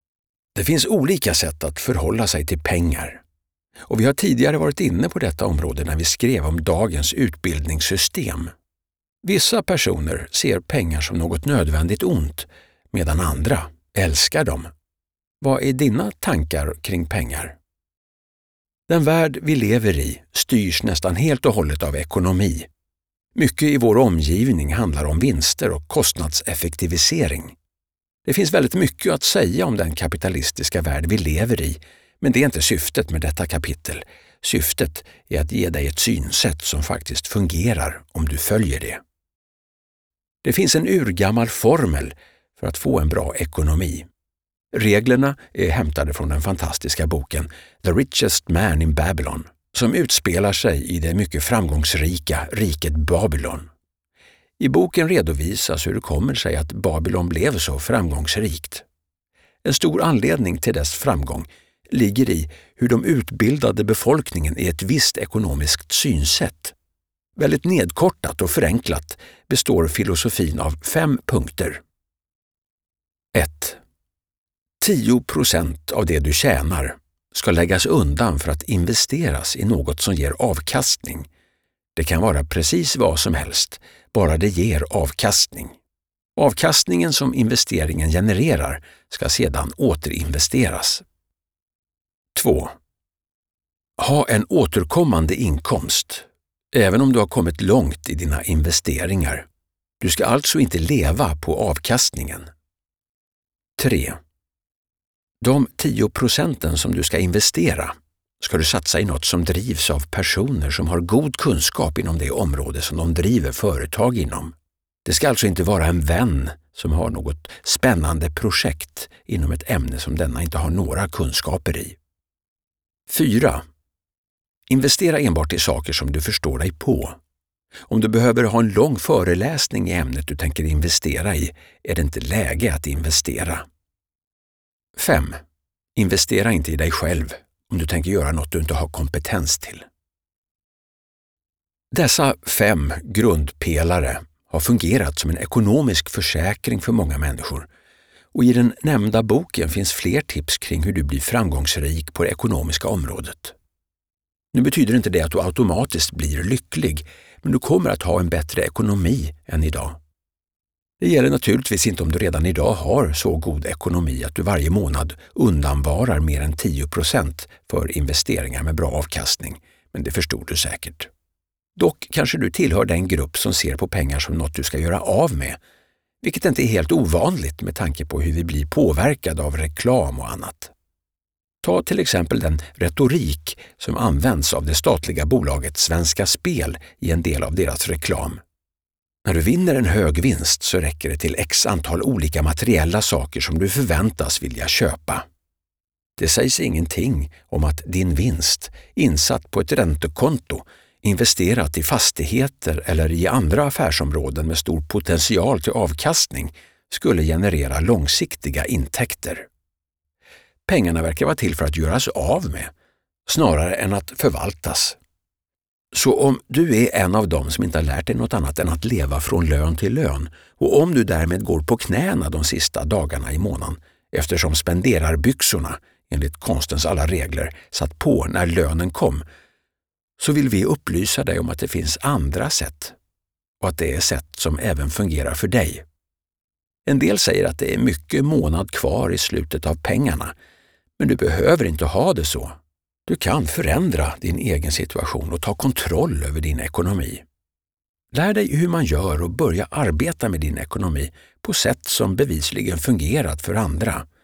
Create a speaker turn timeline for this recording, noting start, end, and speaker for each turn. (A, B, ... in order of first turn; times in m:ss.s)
0:00.6-0:03.2 A
0:03.9-0:08.5 A
0:09.2-0:14.7 A
0:15.4-0:17.6 A
0:18.9-0:22.7 A
0:23.4-0:27.6 A
0:28.2-0:39.0 A
0:40.4-0:44.1 A
0:44.7-0:53.7 A
0:54.6-0:58.8 A
0:59.6-1:06.8 A
1:07.4-1:11.8 A
1:13.3-1:13.8 A
1:14.8-1:21.3 A
1:22.0-1:25.8 A
1:26.4-1:31.0 A
1:32.4-1:32.8 A
1:34.0-1:39.5 A
1:40.0-1:42.5 A
1:43.8-1:44.2 A
1:45.4-1:54.5 A
1:55.0-2:02.0 A
2:03.1-2:03.6 A
2:04.7-2:07.2 A
2:07.9-2:13.7 A
2:15.0-2:15.4 A
2:16.0-2:19.8 A
2:21.9-2:27.7 A
2:28.3-2:33.6 A
2:34.5-2:40.0 A
2:41.0-2:51.1 A
2:51.8-2:55.6 A
2:56.2-3:00.7 A
3:01.6-3:08.4 A
3:09.2-3:15.2 A
3:16.2-3:29.5 A
3:30.7-3:32.7 A
3:33.3-3:35.0 A
3:35.9-3:49.2 A
3:50.2-3:53.0 A
3:53.6-3:55.8 A
3:56.9-4:00.3 A
4:01.0-4:07.2 A
4:08.1-4:14.0 A